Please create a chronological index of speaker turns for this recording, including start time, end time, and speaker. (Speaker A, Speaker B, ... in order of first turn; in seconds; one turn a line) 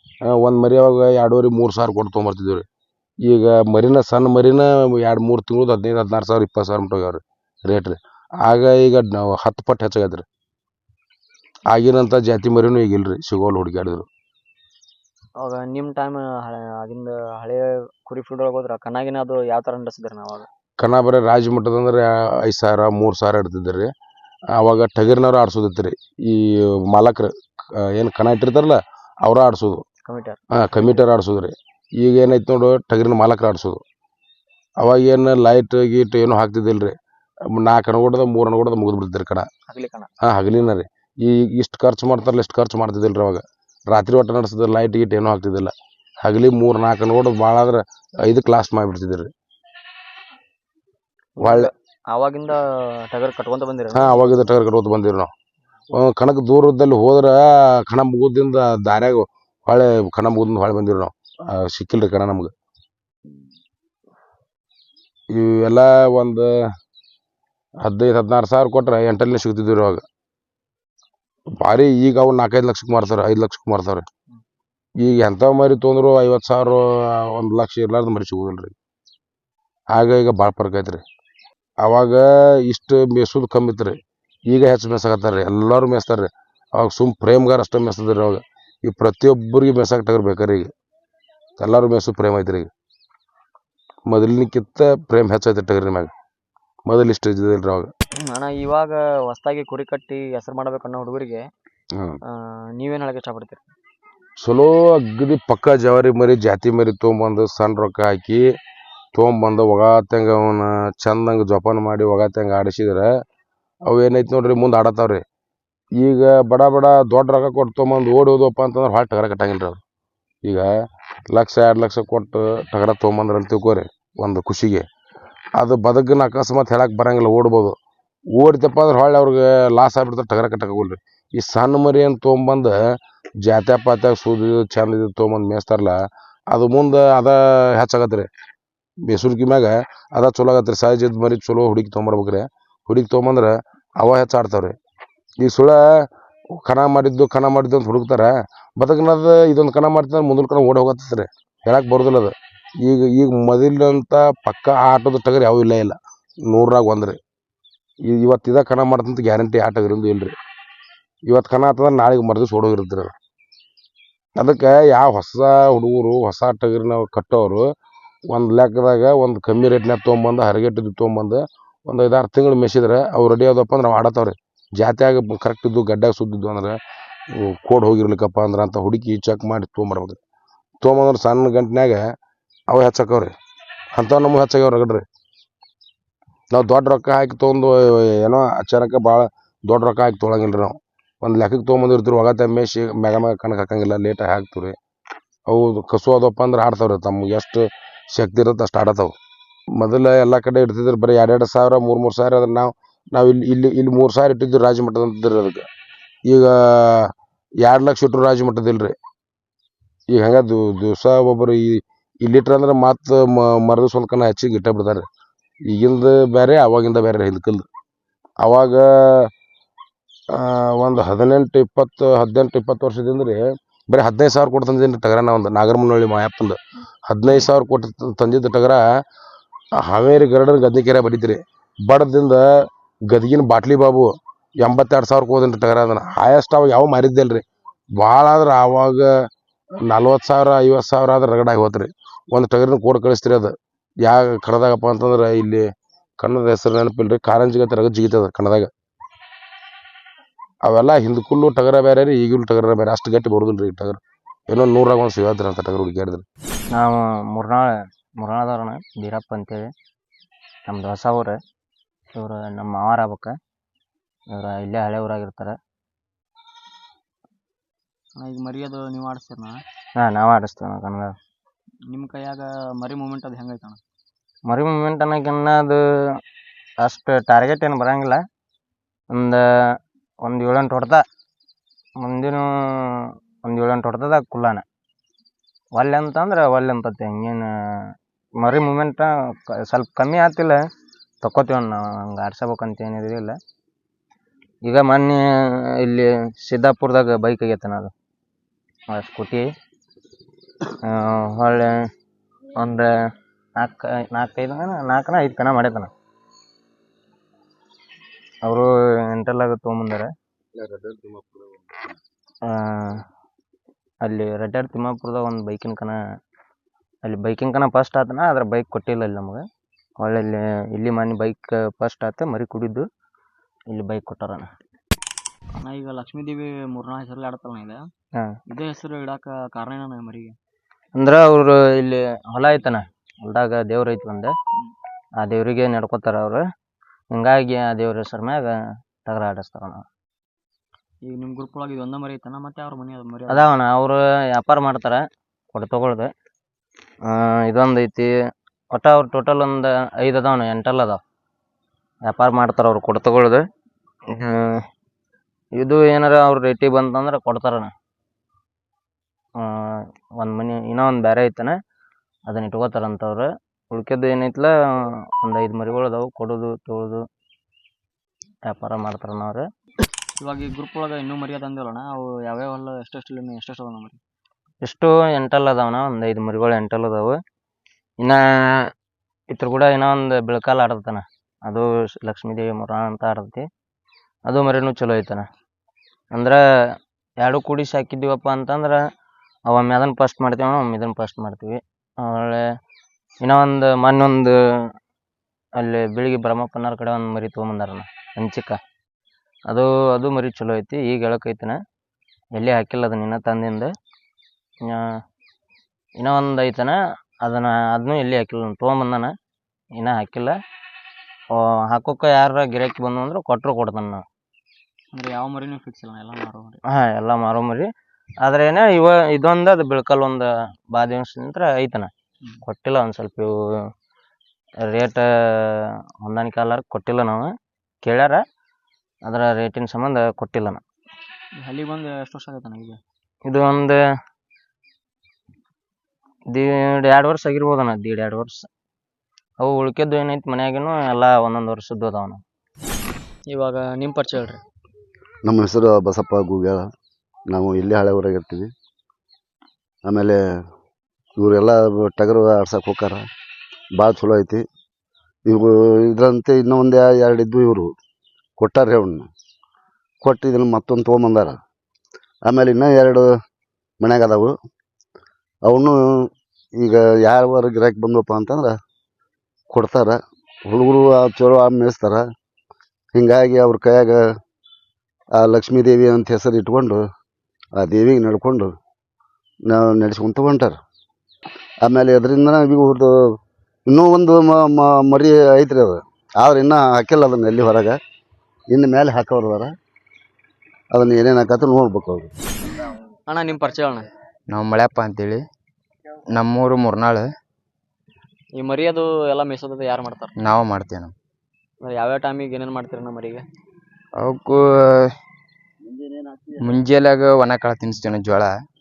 Speaker A: 0.2-2.6
Speaker A: 3.2-10.2
Speaker A: 11.7-14.1
Speaker B: 15.4-20.5
Speaker A: 20.8-23.9
Speaker A: 24.5-29.8
Speaker B: 30.1-30.4
Speaker A: 30.5-33.8
Speaker A: 34.8-37.0
Speaker A: 37.5-39.5
Speaker B: 39.7-40.1
Speaker A: 40.2-49.3
Speaker B: 51.4-54.2
Speaker A: 51.4-51.7
Speaker A: 53.9-55.3
Speaker A: 55.9-62.5
Speaker A: 65.3-66.6
Speaker A: 67.8-70.0
Speaker A: 71.5-74.0
Speaker A: 75.0-78.7
Speaker A: 79.9-81.0
Speaker A: 81.8-90.7
Speaker A: 91.6-92.7
Speaker A: 94.0-96.1
Speaker A: 96.8-97.9
Speaker B: 98.3-101.4
Speaker B: 102.5-103.7
Speaker A: 104.4-108.4
Speaker A: 109.1-113.1
Speaker A: 113.8-115.2
Speaker A: 116.0-119.8
Speaker A: 121.3-124.9
Speaker A: 125.6-127.8
Speaker A: 128.3-138.3
Speaker A: 139.0-144.8
Speaker A: 145.4-157.2
Speaker A: 158.0-160.3
Speaker A: 161.2-163.1
Speaker A: 164.3-167.7
Speaker A: 168.3-176.8
Speaker A: 177.3-180.2
Speaker A: 180.8-182.0
Speaker A: 182.7-183.3
Speaker A: 183.9-185.0
Speaker A: 186.5-194.8
Speaker A: 195.5-199.1
Speaker A: 199.8-205.7
Speaker A: 206.3-208.9
Speaker A: 210.1-215.1
Speaker A: 215.7-217.7
Speaker A: 218.4-219.3
Speaker A: 220.3-228.8
Speaker A: 229.8-237.4
Speaker A: 237.9-239.3
Speaker A: 239.8-243.5
Speaker A: 244.0-245.7
Speaker A: 246.2-248.7
Speaker A: 250.6-256.2
Speaker C: 256.7-259.7
Speaker C: 260.7-261.4
Speaker C: 262.1-263.3
Speaker C: 264.3-265.6
Speaker B: 268.1-269.6
Speaker C: 270.0-271.1
Speaker B: 271.9-273.8
Speaker C: 274.5-275.8
Speaker C: 276.8-278.2
Speaker C: 279.1-279.4
Speaker C: 280.2-281.0
Speaker C: 282.0-282.4
Speaker C: 283.4-284.6
Speaker C: 285.7-287.4
Speaker C: 288.4-289.1
Speaker C: 289.7-290.6
Speaker C: 291.2-293.3
Speaker C: 294.6-295.2
Speaker C: 295.8-297.9
Speaker C: 298.9-299.5
Speaker C: 300.9-301.7
Speaker C: 302.6-302.9
Speaker C: 303.6-305.9
Speaker C: 308.4-310.1
Speaker A: 310.6-311.3
Speaker C: 312.5-313.0
Speaker C: 314.0-316.0
Speaker C: 317.0-319.4
Speaker C: 320.0-322.9
Speaker C: 323.7-324.5
Speaker B: 325.6-327.8
Speaker B: 328.5-330.4
Speaker C: 330.9-334.3
Speaker C: 335.2-336.4
Speaker C: 337.1-338.5
Speaker C: 339.1-339.8
Speaker B: 341.0-343.5
Speaker C: 343.3-345.0
Speaker C: 345.5-346.1
Speaker C: 347.1-348.1
Speaker C: 348.7-351.0
Speaker C: 352.1-353.4
Speaker C: 354.1-354.6
Speaker C: 355.6-357.7
Speaker C: 360.2-361.5
Speaker C: 362.3-364.5
Speaker C: 365.2-367.0
Speaker C: 368.5-369.4
Speaker B: 370.2-374.0
Speaker C: 374.6-377.1
Speaker C: 379.3-383.4
Speaker C: 384.3-385.2
Speaker C: 386.1-386.4
Speaker C: 387.2-388.8
Speaker C: 389.5-392.4
Speaker C: 393.2-394.3
Speaker C: 395.6-398.6
Speaker C: 399.5-401.6
Speaker C: 402.4-403.7
Speaker C: 406.0-409.1
Speaker C: 409.8-410.3
Speaker C: 411.7-414.0
Speaker B: 414.9-416.6
Speaker C: 416.8-417.7
Speaker C: 418.2-421.9
Speaker C: 422.4-423.3
Speaker C: 424.7-427.3
Speaker C: 427.8-428.2
Speaker C: 429.1-430.6
Speaker B: 431.4-432.8
Speaker C: 433.2-433.8
Speaker C: 436.3-438.5
Speaker C: 439.4-442.2
Speaker B: 443.3-444.4
Speaker D: 445.2-446.7
Speaker D: 447.3-448.5
Speaker D: 449.8-450.2
Speaker D: 451.1-453.0
Speaker D: 453.8-454.4
Speaker D: 455.2-457.7
Speaker D: 458.4-459.1
Speaker D: 460.0-461.4
Speaker D: 462.2-463.1
Speaker D: 463.8-464.3
Speaker D: 465.4-468.6
Speaker D: 469.5-472.0
Speaker D: 472.9-474.0
Speaker D: 475.2-476.8
Speaker D: 477.6-478.5
Speaker D: 479.5-480.6
Speaker D: 481.6-482.9
Speaker D: 483.7-487.8
Speaker D: 488.5-489.5
Speaker D: 490.7-492.1
Speaker B: 493.1-493.9
Speaker E: 494.3-495.2
Speaker E: 496.1-497.1
Speaker B: 498.4-500.1
Speaker E: 500.2-500.9
Speaker B: 501.6-503.2
Speaker E: 504.0-504.9
Speaker D: 505.7-506.3
Speaker E: 506.5-508.3